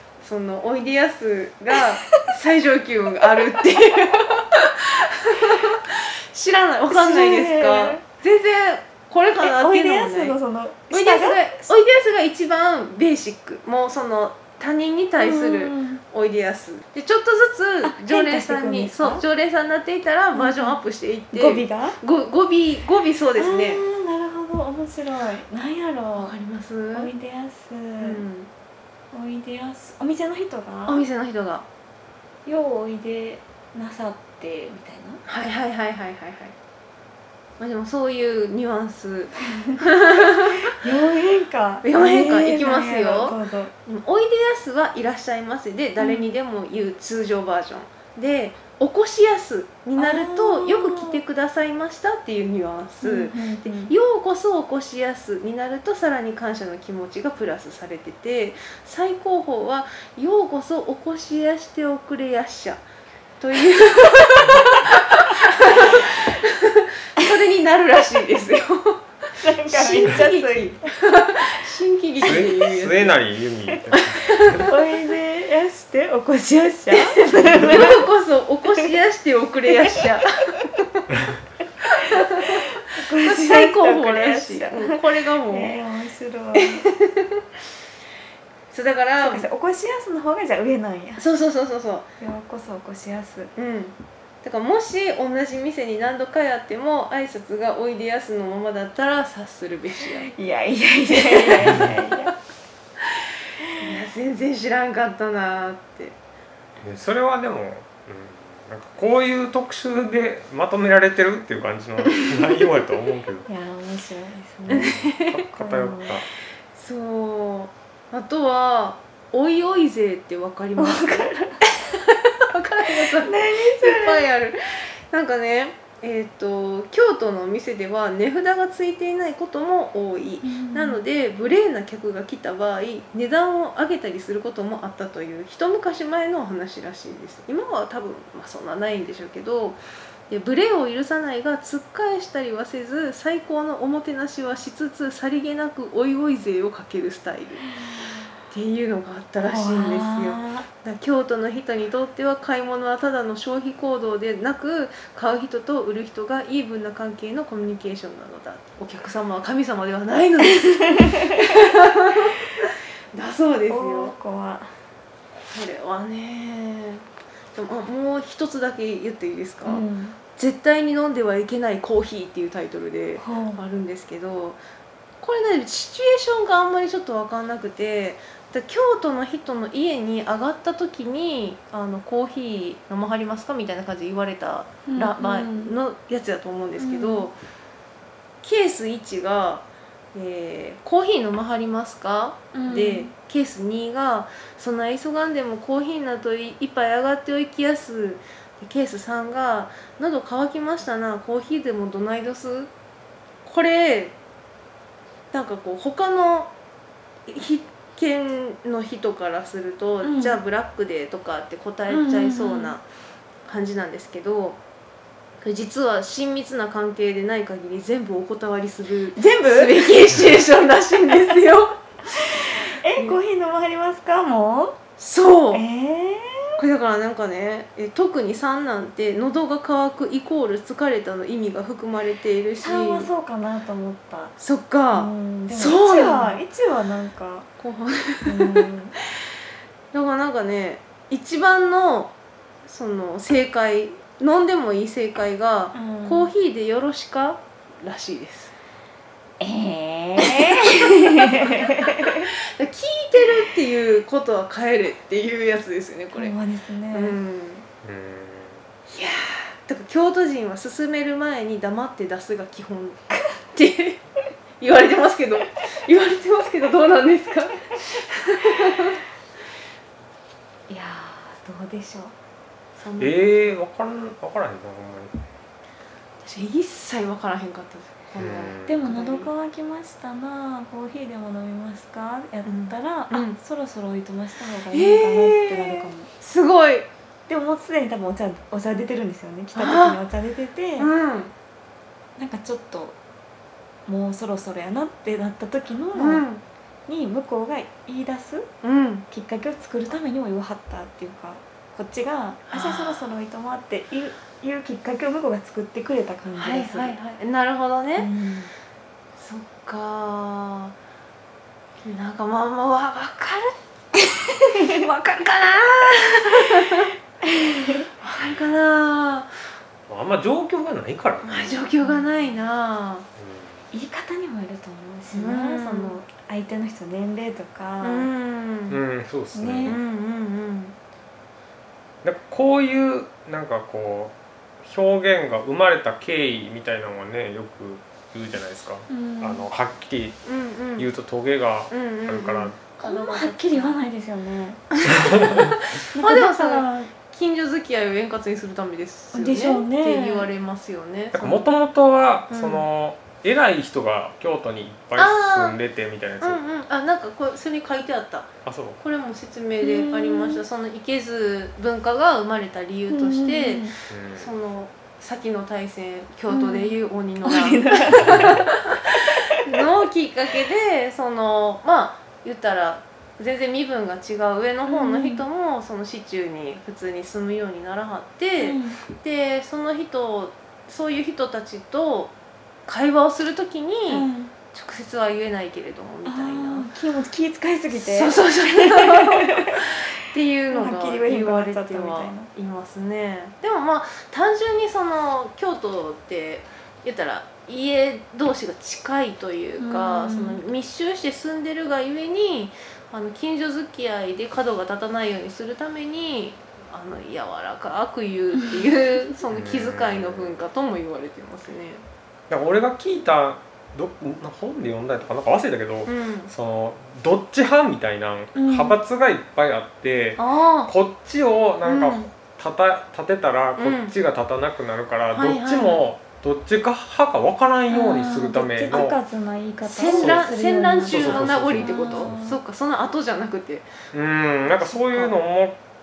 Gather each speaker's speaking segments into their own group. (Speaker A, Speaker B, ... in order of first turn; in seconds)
Speaker A: 0.2-10.4, 10.9-23.8, 26.2-27.1, 28.0-28.5, 30.9-31.7, 35.2-36.5, 37.6-40.6, 41.8-62.8, 63.4-73.2, 73.9-74.7, 76.9-81.0, 81.9-85.8, 86.5-87.4, 88.7-89.5, 91.2-92.1, 93.5-100.3, 101.1-101.9, 103.8-106.2, 114.7-115.3, 116.7-124.6, 125.1-147.7, 148.5-162.4, 163.1-164.2, 165.5-169.8, 170.4-174.6, 175.2-187.3, 188.4-202.7, 203.4-204.2, 205.3-206.5, 207.3-212.8, 213.5-214.6, 215.4-221.8, 222.4-223.2, 225.0-225.6, 226.6-233.1, 234.4-236.4, 237.6-238.7, 239.9-242.1, 242.7-248.5, 250.2-256.3, 256.9-257.6, 258.9-264.0, 264.6-269.0, 272.8-273.3, 276.2-279.3, 282.4-283.4, 284.7-286.9, 289.6-290.0, 290.8-291.3, 295.9-296.4, 298.6-299.1, 302.5-303.1, 306.4-308.1, 309.2-310.8, 311.8-316.9, 318.0-319.3, 321.2-323.1, 325.1-326.0, 327.8-328.8, 329.6-330.8, 340.2-340.9, 341.7-343.8, 344.8-351.5, 352.3-352.7, 355.0-355.6, 356.2-382.1, 382.7-386.7, 387.8-411.8, 415.9-416.3, 420.2-420.7, 421.6-422.1, 423.6-423.9, 425.1-425.8, 429.6-433.7, 434.5-435.1
Speaker B: 6.9-8.0, 9.4-11.4, 15.2-16.0, 17.8-19.2, 20.3-20.8, 21.3-22.0, 23.4-26.3, 26.9-28.2, 29.1-31.0, 32.5-35.2, 39.6-43.7, 46.0-46.3, 50.0-51.2, 53.0-53.9, 69.4-71.5, 74.6-78.1, 79.7-80.1, 82.1-86.8, 89.2-91.2, 92.2-93.5, 100.2-102.3, 103.6-104.0, 113.5-116.2, 120.8-121.6, 123.2-124.3, 130.4-131.0, 147.8-148.3, 149.4-150.7, 160.7-161.5, 163.7-164.7, 169.7-170.2, 173.2-173.6, 184.9-185.7, 186.8-187.3, 192.5-193.1, 210.0-210.4, 211.9-212.8, 219.2-220.2, 222.3-224.8, 225.5-226.6, 232.6-234.3, 234.9-237.5, 238.2-238.9, 245.7-246.3, 249.4-252.3, 256.1-257.2, 270.7-272.1, 278.7-286.1, 287.3-290.9, 292.2-293.0, 293.9-296.2, 296.9-298.5, 299.1-307.0, 308.0-308.5, 314.6-314.8, 317.2-317.9, 321.8-322.3, 323.7-328.1, 329.4-329.8, 338.9-339.5, 342.8-344.7, 345.9-346.9, 349.1-350.3, 359.6-360.4, 362.9-363.7, 366.3-368.4, 374.7-375.2, 378.4-378.8, 383.9-384.3, 386.1-389.7, 390.5-392.3, 399.6-400.4, 408.4-408.7, 418.4-418.8, 427.7-432.4
Speaker C: 72.2-74.7, 101.7-102.0, 106.8-113.5, 114.7-116.3, 257.8-258.6, 273.0-275.1, 278.2-278.8, 319.9-321.7, 323.2-323.6, 328.7-329.8, 332.0-340.2, 340.8-342.6, 344.9-345.6, 351.1-356.4, 358.4-358.8, 363.9-364.3, 367.9-368.4, 409.3-410.4, 412.3-429.0, 429.9-432.3, 433.9-435.6